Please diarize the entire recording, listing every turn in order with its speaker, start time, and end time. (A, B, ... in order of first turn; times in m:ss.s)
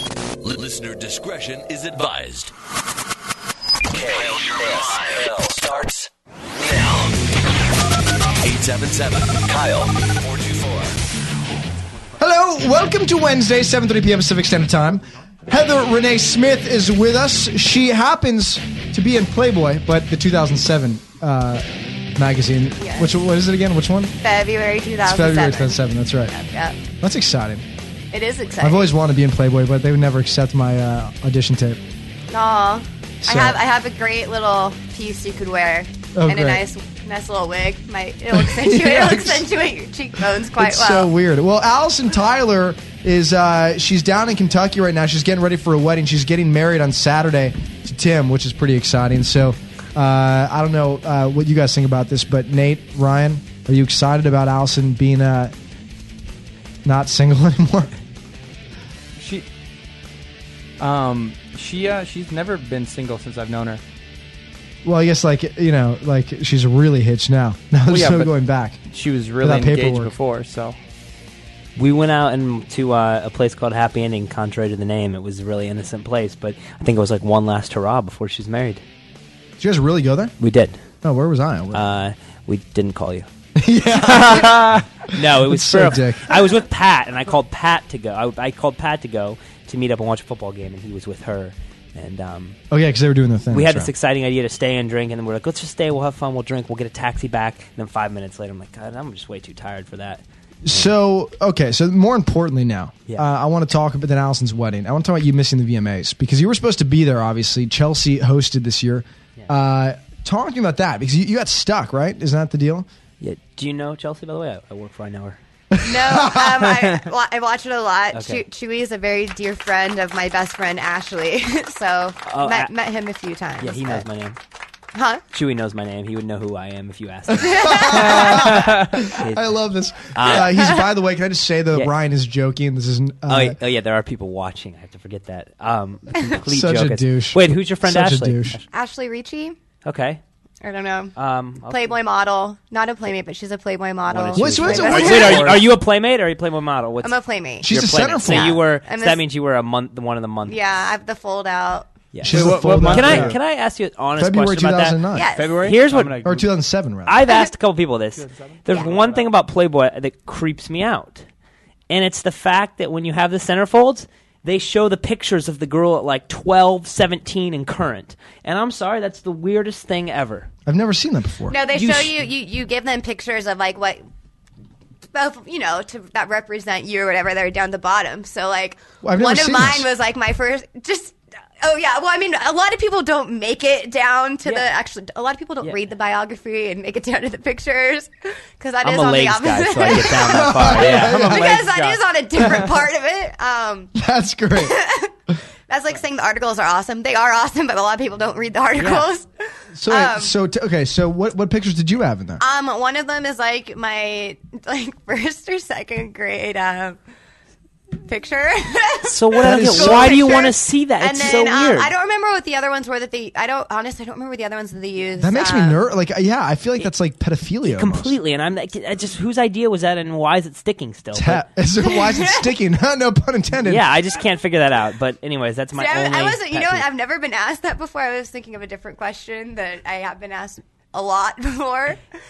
0:00.4-0:02.5 A
0:03.9-0:06.1 A
0:06.6-0:07.2 A
0:08.4-0:11.0 A
0:12.2-0:24.1 B
0:22.8-0:23.1 C
0:24.2-0:26.8 C
0:25.0-0:26.3 B
0:27.0-0:27.6 B
0:28.1-0:28.9 C
0:28.6-0:31.8 B
0:32.3-0:41.1 C
0:33.2-0:33.6 B
0:36.2-0:36.6 B
0:38.3-0:39.5 B
0:40.6-0:55.5 B
0:56.8-0:58.0 B
0:59.2-0:59.5 D
1:00.8-1:03.8 D
1:04.8-1:08.8 B
1:07.9-1:08.4 D
1:08.9-1:10.8 D
1:09.4-1:10.1 B
1:11.8-1:18.8 E
1:19.6-1:20.4 B
1:20.4-1:20.8 E
1:21.0-1:21.9 B
1:21.7-1:23.3 E
1:23.6-1:26.4 B
1:24.3-1:24.8 D
1:25.1-1:32.6 E
1:32.7-1:33.9 B
1:33.5-1:40.9 E
1:40.6-1:52.9 B
1:53.2-1:55.4 E
1:55.7-1:56.9 B
1:55.8-2:04.0 C
1:58.1-1:58.4 E
2:02.3-2:02.7 E
2:03.6-2:04.4 E
2:04.9-2:05.2 C
2:05.3-2:09.6 E
2:07.4-2:08.3 C
2:07.4-2:13.6 B
2:08.2-2:08.8 D
2:10.1-2:10.8 E
2:10.3-2:10.8 C
2:13.3-2:18.6 E
2:16.4-2:18.6 B
2:18.7-2:19.6 C
2:19.8-2:20.2 E
2:20.6-2:25.6 C
2:21.2-2:22.0 E
2:24.1-2:30.6 E
2:24.3-2:25.6 B
2:25.0-2:25.5 D
2:27.0-2:27.7 C
2:27.6-2:28.7 B
2:28.2-2:29.2 C
2:30.5-2:31.9 C
2:32.1-2:35.0 E
2:32.2-2:33.4 B
2:32.2-2:33.4 D
2:34.2-2:35.3 B
2:35.1-2:35.7 C
2:35.3-2:36.4 D
2:35.6-2:36.3 E
2:36.2-2:37.2 B
2:37.1-2:41.2 E
2:38.2-2:39.3 D
2:41.9-2:50.5 E
2:50.7-2:51.6 B
2:51.5-2:54.0 C
2:51.7-2:52.2 E
2:55.1-3:13.9 C
2:59.0-2:59.9 B
3:08.8-3:11.4 E
3:10.0-3:11.6 B
3:10.7-3:12.6 D
3:13.9-3:14.8 B
3:14.5-3:15.1 C
3:15.7-3:19.3 C
3:19.7-3:22.4 B
3:19.8-3:20.3 C
3:22.4-3:27.0 C
3:27.9-3:35.8 C
3:29.1-3:31.9 E
3:29.4-3:30.4 B
3:35.2-3:38.2 B
3:37.6-3:41.4 E
3:41.1-3:43.9 B
3:41.8-3:42.5 C
3:43.6-3:46.9 E
3:45.7-3:52.0 C